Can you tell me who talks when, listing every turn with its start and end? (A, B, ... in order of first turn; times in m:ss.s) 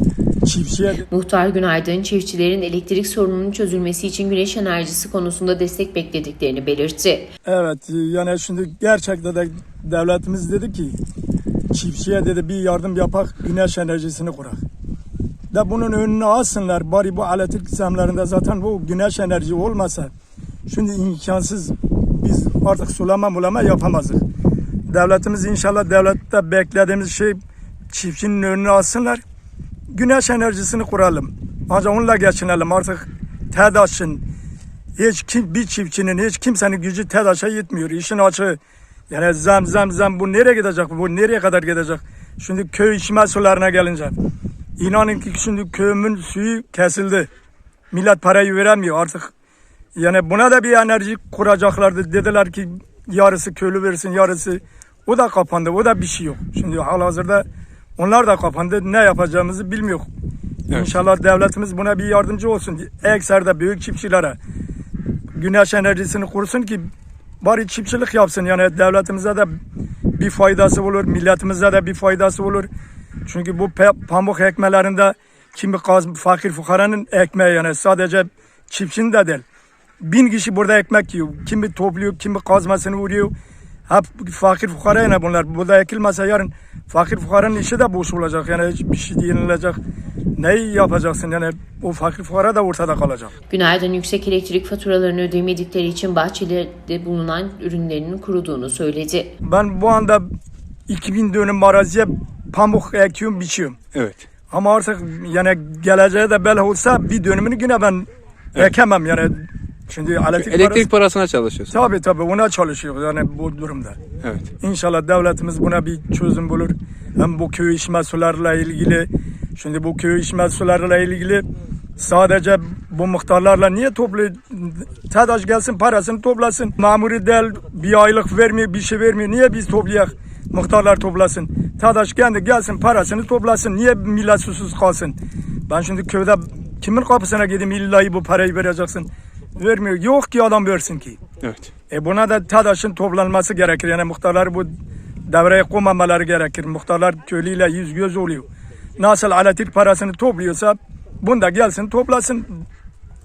0:00.4-0:01.1 A
0:01.1-0:07.3 B
0:07.4-0:11.0 A
0:11.7-0:14.6 A
0:15.5-0:20.1 A
0:20.7-0:24.2 A
0:24.9-0:27.4 A
0:27.9-0:29.2 A
0:29.9-0:34.2 A
0:35.0-0:44.2 A
0:44.8-0:47.3 A
0:47.9-0:49.3 A
0:50.0-0:57.4 A
0:58.0-1:00.1 A
1:00.7-1:04.4 A
1:05.3-1:06.9 A
1:07.4-1:09.5 A
1:10.2-1:12.7 A
1:13.3-1:19.4 A
1:20.0-1:23.3 A
1:23.9-1:29.8 A
1:30.4-1:33.3 A
1:33.5-1:39.3 B
1:39.4-1:40.3 A
1:40.9-1:43.8 A
1:44.0-1:44.2 C
1:44.5-1:50.9 A
1:50.4-1:51.7 C
1:51.7-1:54.0 A
1:54.6-2:01.4 A
2:02.0-2:15.2 A
2:15.7-2:21.2 A
2:21.4-2:21.7 C
2:21.9-2:24.7 A
2:25.3-2:28.5 A
2:29.0-2:32.6 A